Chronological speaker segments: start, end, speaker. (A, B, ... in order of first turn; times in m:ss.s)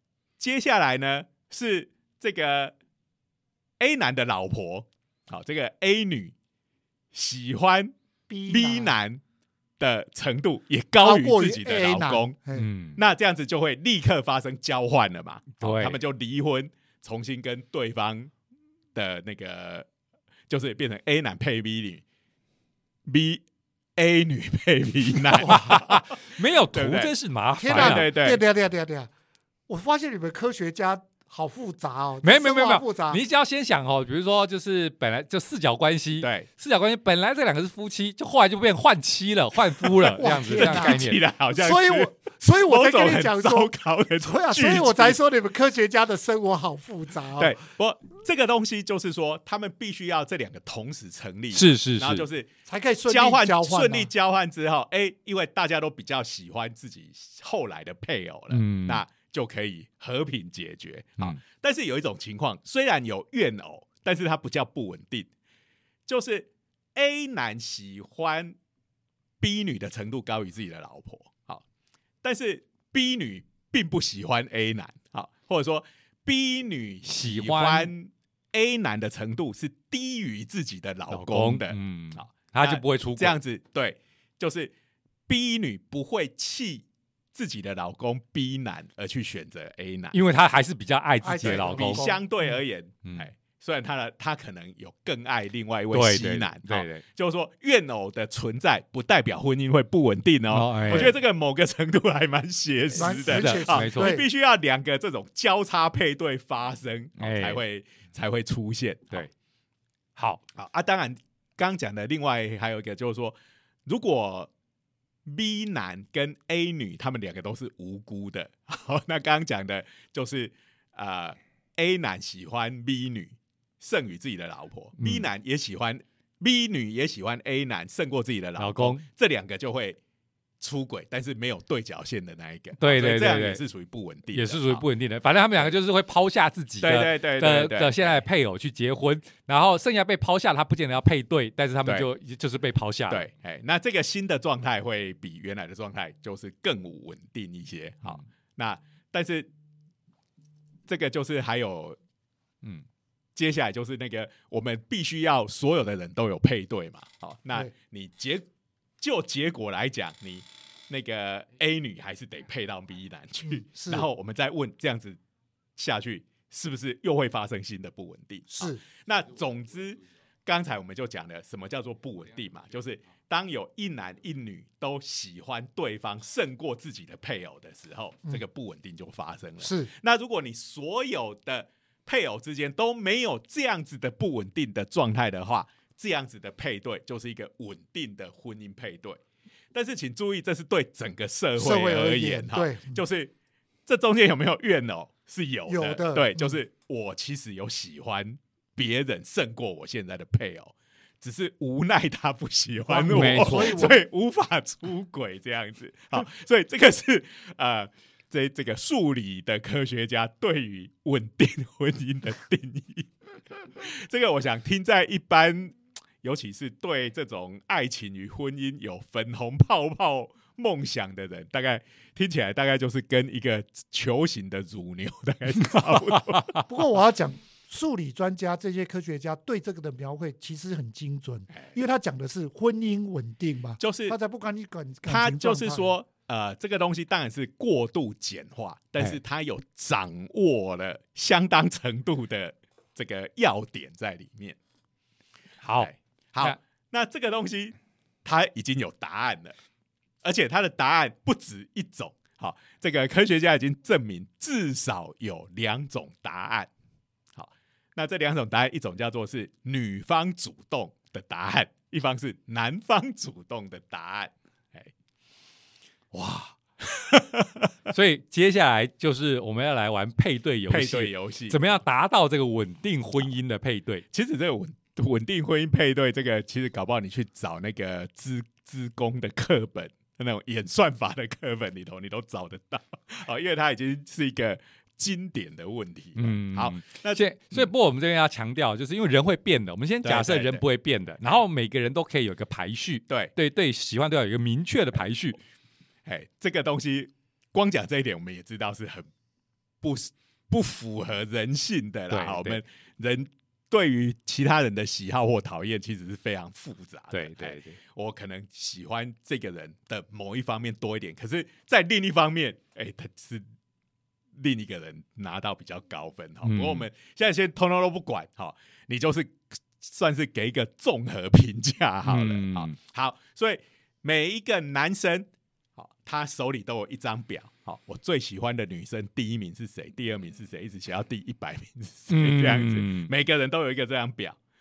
0:00.4-0:02.7 A
0:03.8-0:06.3 A
0:07.1-0:07.9 A
0:08.3-0:09.0 B
0:08.5-0:09.2 A
0:09.8-0:12.4 A
0:11.0-0:12.7 B
0:12.5-0:13.0 C
0:13.0-0:18.3 A
0:15.6-0:16.0 C
0:18.9-0:19.9 A
0:20.5-0:22.0 A
0:23.0-0:23.4 A
0:24.0-0:26.2 A
0:25.4-0:28.1 C
0:25.4-0:25.7 B
0:26.7-0:27.1 A
0:27.6-0:29.1 B
0:27.7-0:28.4 A
0:29.7-0:33.2 B
0:32.2-0:41.2 C
0:36.2-0:36.5 A
0:39.8-0:42.1 A
0:40.2-0:47.6 B
0:42.6-0:45.2 A
0:47.4-0:52.5 A
0:51.5-0:52.2 C
0:52.7-0:54.1 B
0:53.1-1:05.3 A
0:58.5-0:59.0 C
1:06.1-1:08.6 A
1:09.4-1:11.6 A
1:12.2-1:24.7 A
1:17.1-1:17.9 C
1:21.1-1:23.3 C
1:25.3-1:30.2 A
1:30.1-1:32.1 C
1:31.2-1:32.2 B
1:31.4-1:49.3 A
1:35.9-1:37.0 C
1:40.5-1:41.1 C
1:42.9-1:44.2 B
1:43.0-1:44.2 C
1:47.2-1:47.6 C
1:50.2-1:50.4 C
1:50.5-1:54.5 A
1:55.2-2:10.0 A
2:05.0-2:05.3 C
2:08.6-2:09.0 C
2:10.6-2:14.8 A
2:12.8-2:13.6 C
2:14.3-2:23.3 C
2:16.8-2:18.2 A
2:23.1-2:29.5 A
2:30.9-2:32.0 A
2:33.3-2:38.4 A
2:39.0-2:45.2 A
2:43.5-2:44.1 B
2:45.8-3:09.2 A
2:48.5-2:48.8 B
2:59.6-2:59.9 B
3:09.7-3:13.3 A
3:11.6-3:13.0 B
3:13.8-3:46.6 A
3:15.7-3:16.5 B
3:22.9-3:24.0 B
3:23.0-3:24.0 C
3:46.6-3:55.9 B
3:53.8-3:54.2 A
3:55.1-4:04.6 A
4:05.6-4:06.6 C
4:05.8-4:09.6 A
4:10.2-4:16.7 A
4:17.3-4:24.9 A
4:26.1-4:26.5 C
4:26.8-4:27.7 A
4:27.9-4:34.0 C
4:30.7-4:31.6 A
4:34.1-4:47.7 A
4:46.2-4:55.4 C
4:50.0-4:50.6 A
4:56.0-4:59.1 A
4:59.8-5:13.4 A
5:02.1-5:02.6 C
5:07.1-5:07.8 C
5:14.3-5:34.4 A
5:16.4-5:16.8 C
5:22.0-5:22.7 C
5:32.1-5:33.1 C